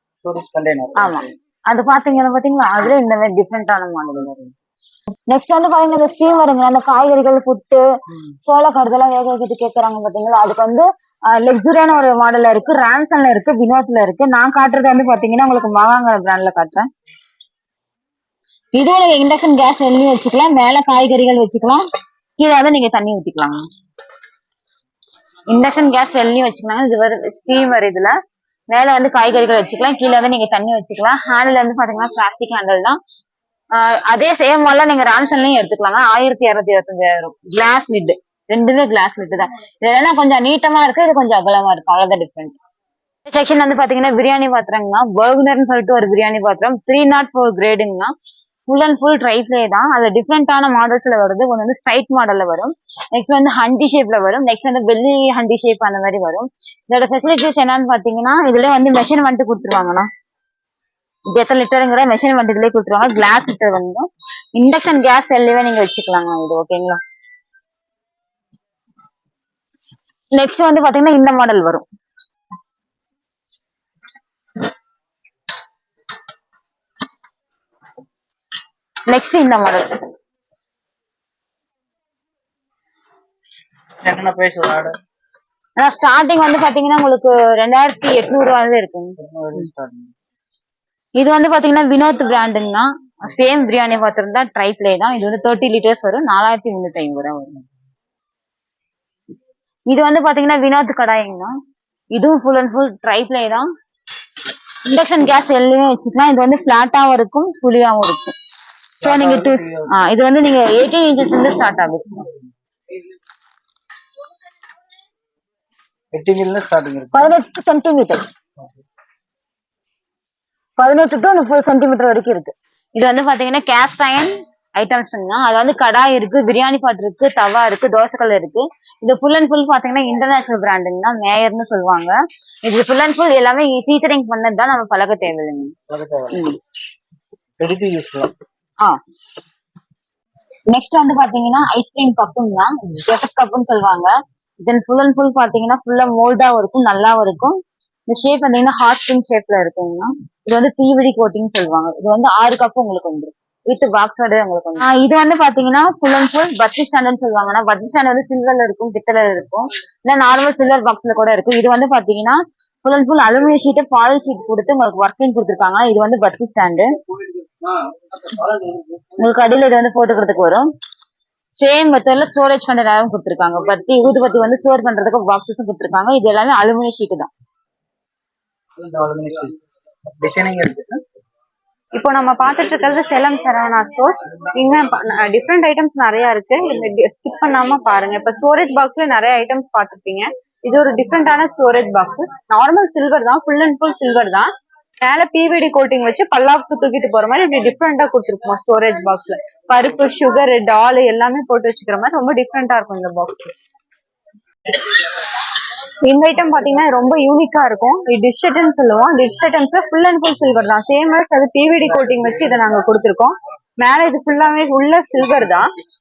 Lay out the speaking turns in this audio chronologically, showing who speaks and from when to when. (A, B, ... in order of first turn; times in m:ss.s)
0:00.2-0:01.3 A
0:01.0-0:04.4 B
0:05.3-0:07.8 B
0:08.4-0:16.9 B
0:18.8-0:21.8 B
0:22.4-0:23.7 B
0:25.5-0:28.2 B
0:28.7-0:33.0 B
0:33.7-0:42.6 B
0:43.3-0:48.1 B
0:48.7-1:00.1 B
1:01.3-1:07.0 B
1:10.3-1:11.8 B
1:19.1-1:19.9 B
1:24.0-1:25.0 A
1:25.8-1:29.2 B
1:29.2-1:30.1 A
1:31.2-1:37.6 B
1:39.9-1:41.5 B
1:42.1-1:43.7 B
1:44.9-1:48.4 B
1:49.0-1:49.9 A
1:49.0-1:52.2 B
1:56.1-1:57.3 A
1:57.1-1:58.2 B
2:00.8-2:15.8 B
2:15.9-2:16.3 A
2:16.3-2:16.6 B
2:17.6-2:18.3 A
2:20.7-2:24.1 B
2:24.6-2:46.9 B
2:49.2-2:50.7 B
2:51.6-2:57.3 B
2:58.8-2:59.6 A
3:00.2-3:01.0 A
3:01.9-3:14.5 C
3:15.0-3:23.5 C
3:26.0-3:35.7 C